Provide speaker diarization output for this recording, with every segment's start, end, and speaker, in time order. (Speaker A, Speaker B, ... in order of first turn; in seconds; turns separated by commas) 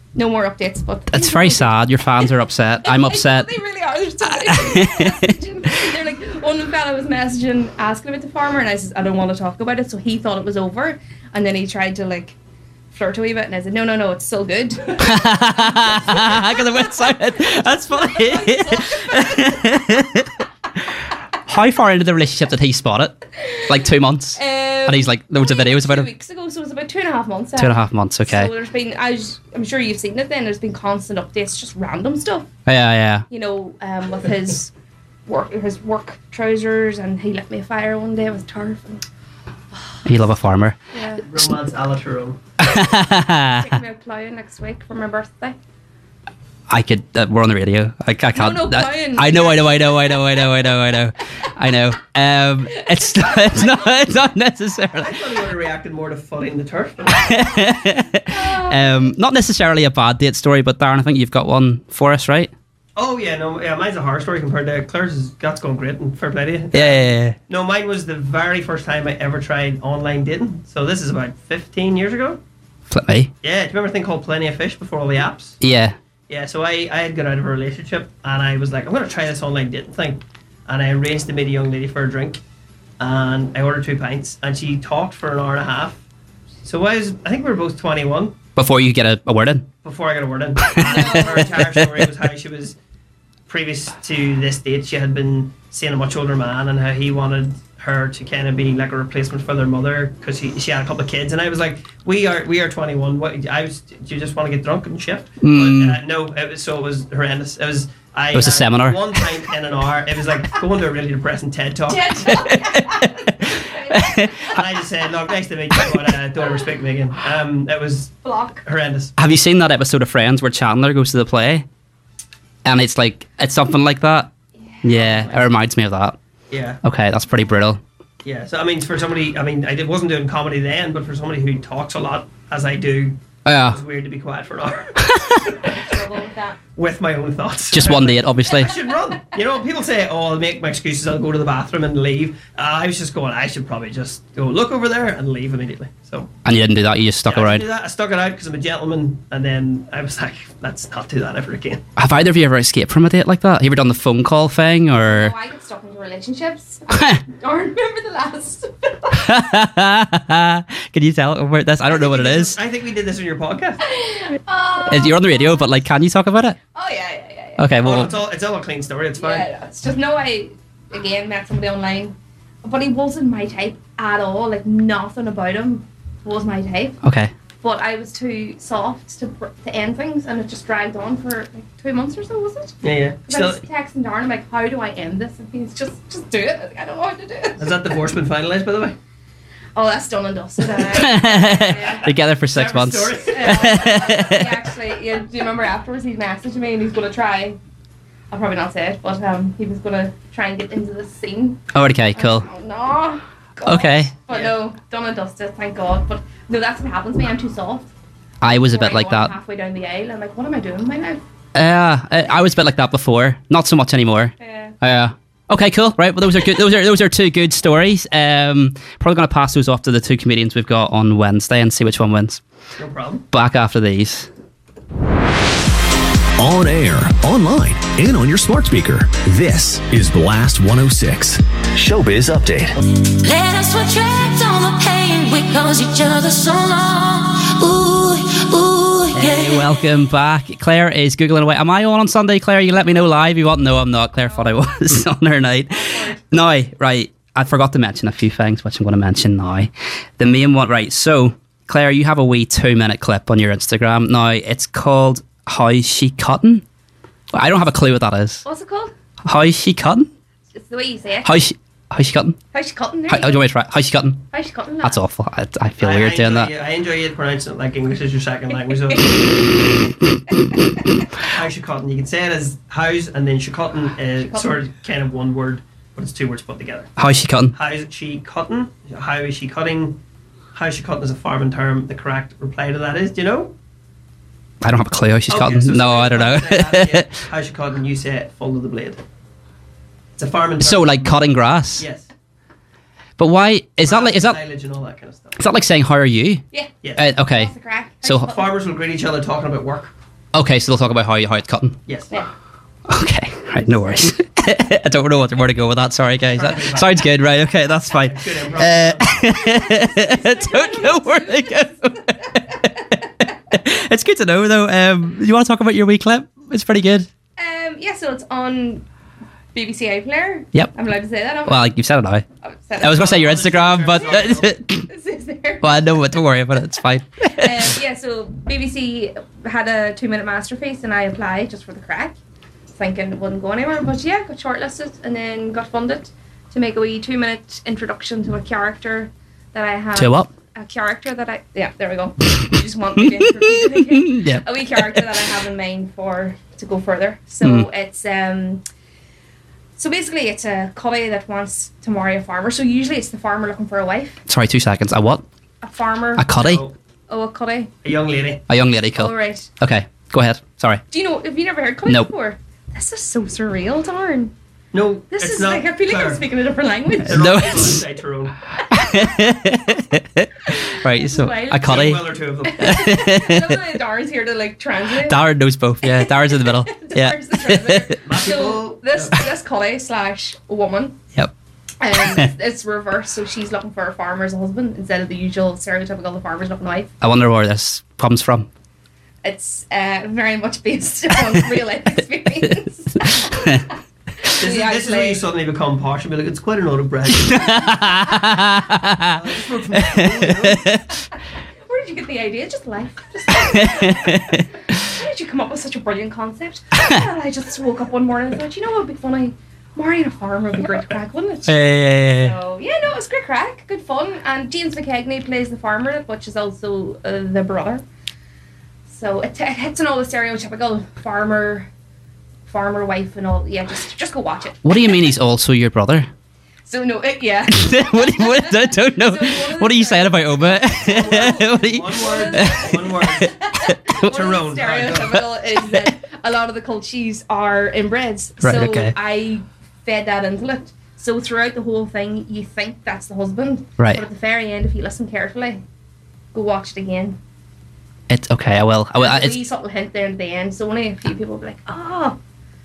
Speaker A: 0.1-2.2, Speaker B: 1.1-3.5, Speaker A: 2.8-12.3, Speaker B: 4.3-5.3, Speaker A: 12.9-19.9, Speaker B: 15.0-20.3, Speaker B: 21.4-26.1, Speaker A: 24.4-32.5, Speaker B: 27.6-28.5, Speaker B: 32.6-33.2, Speaker A: 33.3-34.7, Speaker A: 35.3-39.0, Speaker B: 40.0-40.8, Speaker A: 40.9-41.2, Speaker C: 41.3-42.4, Speaker B: 42.6-43.7, Speaker A: 43.4-45.6, Speaker B: 46.7-55.2, Speaker A: 48.3-50.4, Speaker A: 52.7-54.1, Speaker C: 55.0-57.6, Speaker B: 57.1-62.5, Speaker A: 58.2-59.1, Speaker C: 63.0-72.4, Speaker B: 66.7-67.3, Speaker B: 72.9-73.3, Speaker C: 73.4-75.6, Speaker B: 75.6-76.0, Speaker C: 76.3-82.4, Speaker C: 83.0-86.0, Speaker C: 86.6-88.3, Speaker B: 88.5-89.7, Speaker C: 89.8-92.8, Speaker B: 90.7-92.1, Speaker A: 90.8-91.6, Speaker C: 93.5-112.4, Speaker B: 105.4-106.0, Speaker B: 108.3-109.2, Speaker A: 111.9-114.5, Speaker B: 112.3-114.5, Speaker C: 114.5-119.2, Speaker A: 118.2-118.6, Speaker B: 119.2-121.7, Speaker B: 122.6-124.3, Speaker A: 124.7-125.4, Speaker B: 124.8-126.2, Speaker C: 126.5-126.8, Speaker B: 126.8-127.8, Speaker C: 128.2-135.8, Speaker B: 133.4-133.8, Speaker B: 135.1-135.4, Speaker A: 135.7-136.6, Speaker C: 136.8-146.3, Speaker B: 137.7-138.7, Speaker B: 146.4-147.6, Speaker C: 147.2-151.8, Speaker B: 152.0-155.3, Speaker A: 155.0-159.3, Speaker B: 156.9-157.2, Speaker B: 159.1-162.6, Speaker C: 161.8-163.8, Speaker A: 163.8-165.7, Speaker B: 164.8-166.6, Speaker A: 166.7-167.6, Speaker B: 167.6-168.1, Speaker C: 167.8-169.4, Speaker A: 169.2-177.0, Speaker B: 177.0-177.3, Speaker A: 177.6-187.8, Speaker C: 182.8-183.6, Speaker C: 187.6-188.9, Speaker A: 189.7-192.1, Speaker B: 190.8-194.5, Speaker C: 192.0-194.4, Speaker A: 193.3-197.6, Speaker A: 198.3-201.6, Speaker B: 201.7-202.5, Speaker A: 202.1-207.9, Speaker B: 203.6-204.1, Speaker B: 208.4-209.3, Speaker A: 208.4-211.2, Speaker B: 211.5-222.4, Speaker A: 214.4-214.7, Speaker C: 222.8-223.2, Speaker B: 223.3-224.3, Speaker D: 226.4-232.8, Speaker E: 233.2-239.7, Speaker B: 239.1-256.6, Speaker A: 244.3-244.5, Speaker A: 245.7-246.2, Speaker B: 257.3-258.4, Speaker A: 258.4-258.9, Speaker B: 259.2-260.1, Speaker A: 260.5-261.4, Speaker B: 261.2-262.4, Speaker A: 262.5-263.4, Speaker B: 263.1-264.3, Speaker A: 264.3-265.0, Speaker B: 264.8-266.5, Speaker C: 265.8-269.5, Speaker A: 268.7-269.2, Speaker C: 271.2-276.9, Speaker A: 274.2-274.6, Speaker B: 277.0-277.5, Speaker C: 277.5-280.0, Speaker C: 280.5-283.5, Speaker B: 284.6-287.1, Speaker C: 285.3-289.0, Speaker C: 290.2-292.1, Speaker B: 290.6-291.9, Speaker B: 293.2-294.4, Speaker C: 293.8-295.5, Speaker B: 295.4-296.4, Speaker A: 296.5-298.5, Speaker C: 296.8-297.1, Speaker B: 296.9-297.5, Speaker C: 298.1-299.9, Speaker B: 300.3-301.8, Speaker C: 301.9-302.1, Speaker B: 302.9-312.5, Speaker A: 303.6-304.0, Speaker C: 306.3-307.2, Speaker C: 308.0-309.3, Speaker A: 309.3-312.9, Speaker B: 313.5-317.1, Speaker A: 317.4-318.8, Speaker A: 319.5-321.7, Speaker B: 321.4-322.2, Speaker A: 322.4-323.2, Speaker B: 322.8-324.9, Speaker C: 322.8-324.5, Speaker A: 324.9-326.0, Speaker B: 325.6-327.7, Speaker A: 327.2-332.1, Speaker A: 332.7-348.6, Speaker B: 339.9-340.3, Speaker B: 343.0-345.1, Speaker B: 347.4-347.7, Speaker A: 349.8-354.2, Speaker B: 354.3-355.2, Speaker A: 355.6-356.3, Speaker B: 356.1-356.6, Speaker C: 356.4-356.7, Speaker A: 357.1-357.7, Speaker C: 357.8-358.4, Speaker B: 358.5-360.8, Speaker A: 358.9-359.5, Speaker A: 360.9-364.3, Speaker C: 364.7-366.2, Speaker A: 365.1-367.3, Speaker C: 367.0-368.4, Speaker B: 367.1-367.8, Speaker B: 368.7-372.0, Speaker A: 370.7-371.9, Speaker C: 371.5-372.9, Speaker A: 372.5-375.2, Speaker B: 372.6-373.6, Speaker B: 375.0-377.9, Speaker A: 375.8-381.0, Speaker C: 378.0-379.2, Speaker A: 381.8-386.9, Speaker B: 387.0-388.5, Speaker A: 389.2-395.2, Speaker C: 394.4-397.7, Speaker B: 397.1-399.2, Speaker A: 397.5-398.5, Speaker C: 399.1-400.7, Speaker B: 399.8-400.8, Speaker A: 401.6-411.6, Speaker B: 403.4-404.4, Speaker B: 411.5-412.3, Speaker A: 412.1-417.8, Speaker A: 418.9-421.7, Speaker A: 422.5-425.1, Speaker B: 424.6-426.1, Speaker A: 426.7-445.6, Speaker B: 427.5-434.0, Speaker C: 431.2-433.3, Speaker C: 433.9-435.2, Speaker B: 438.4-438.9, Speaker A: 446.3-447.2, Speaker B: 448.1-449.4, Speaker A: 448.9-452.2